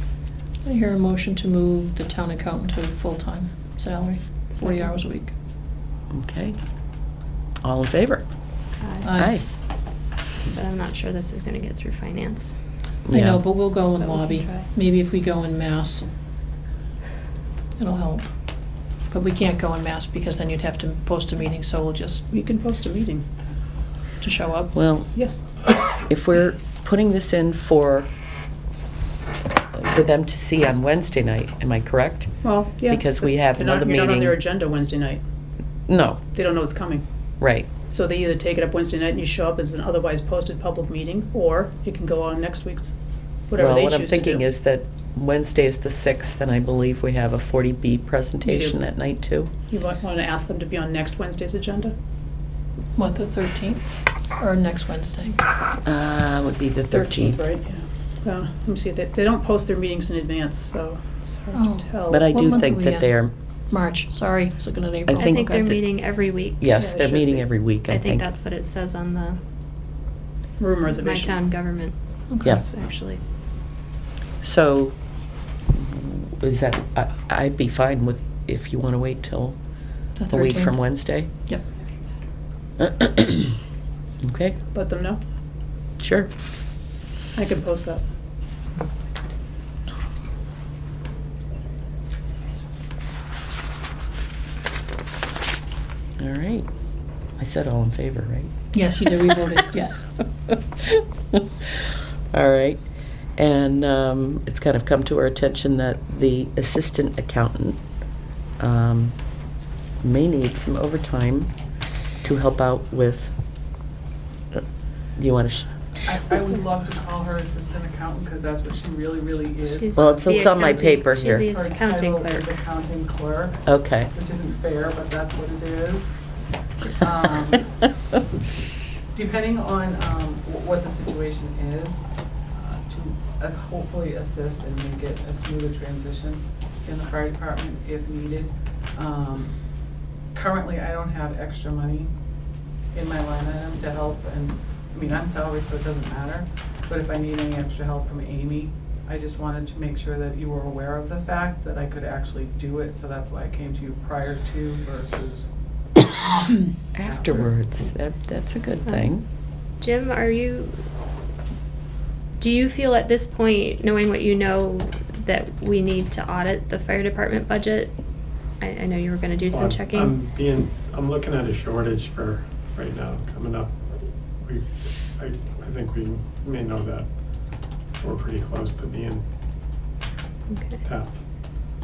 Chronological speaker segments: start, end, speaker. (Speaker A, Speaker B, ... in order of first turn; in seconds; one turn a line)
Speaker A: 0.7-5.3
Speaker B: 4.5-4.9
Speaker C: 6.1-6.6
Speaker C: 7.6-8.2
Speaker B: 8.8-9.1
Speaker A: 9.0-9.4
Speaker C: 9.2-9.4
Speaker B: 10.5-12.6
Speaker C: 13.1-13.5
Speaker A: 13.1-16.1
Speaker B: 14.0-14.7
Speaker A: 17.8-18.3
Speaker A: 19.1-22.2
Speaker D: 22.3-23.2
Speaker A: 24.2-24.9
Speaker C: 24.7-25.1
Speaker D: 25.1-25.4
Speaker C: 25.9-28.1
Speaker C: 29.7-34.4
Speaker D: 32.4-35.2
Speaker C: 35.9-36.2
Speaker D: 36.3-37.0
Speaker C: 37.4-37.7
Speaker D: 37.9-42.9
Speaker D: 43.5-44.5
Speaker C: 43.6-49.5
Speaker D: 48.4-48.9
Speaker D: 49.7-52.0
Speaker A: 53.0-55.4
Speaker C: 55.8-57.4
Speaker D: 56.9-62.5
Speaker A: 61.5-65.7
Speaker C: 62.1-63.3
Speaker C: 65.1-68.2
Speaker B: 65.2-66.6
Speaker D: 66.8-67.7
Speaker B: 67.9-69.4
Speaker D: 70.6-71.4
Speaker B: 70.8-73.2
Speaker A: 72.3-72.6
Speaker C: 74.4-75.0
Speaker C: 75.7-79.6
Speaker A: 80.2-81.6
Speaker C: 80.3-81.3
Speaker C: 82.8-83.5
Speaker C: 84.2-84.6
Speaker D: 84.7-85.2
Speaker C: 86.0-86.3
Speaker D: 87.3-88.0
Speaker C: 96.2-96.7
Speaker C: 97.4-98.5
Speaker A: 98.7-100.1
Speaker C: 101.0-101.4
Speaker C: 102.3-102.8
Speaker C: 103.4-107.8
Speaker C: 108.6-109.2
Speaker C: 110.0-111.5
Speaker C: 112.2-113.3
Speaker C: 115.2-115.7
Speaker E: 116.0-120.7
Speaker B: 119.7-122.5
Speaker C: 120.0-121.5
Speaker E: 121.4-126.2
Speaker C: 123.7-124.1
Speaker E: 126.8-127.7
Speaker E: 129.1-139.6
Speaker E: 140.3-142.1
Speaker E: 142.9-155.5
Speaker C: 156.9-159.2
Speaker E: 157.1-157.5
Speaker B: 158.9-159.1
Speaker B: 159.8-160.8
Speaker B: 162.4-167.9
Speaker B: 168.6-170.2
Speaker F: 169.5-173.8
Speaker F: 174.4-177.1
Speaker F: 178.0-179.2
Speaker B: 180.5-180.8
Speaker F: 180.8-181.2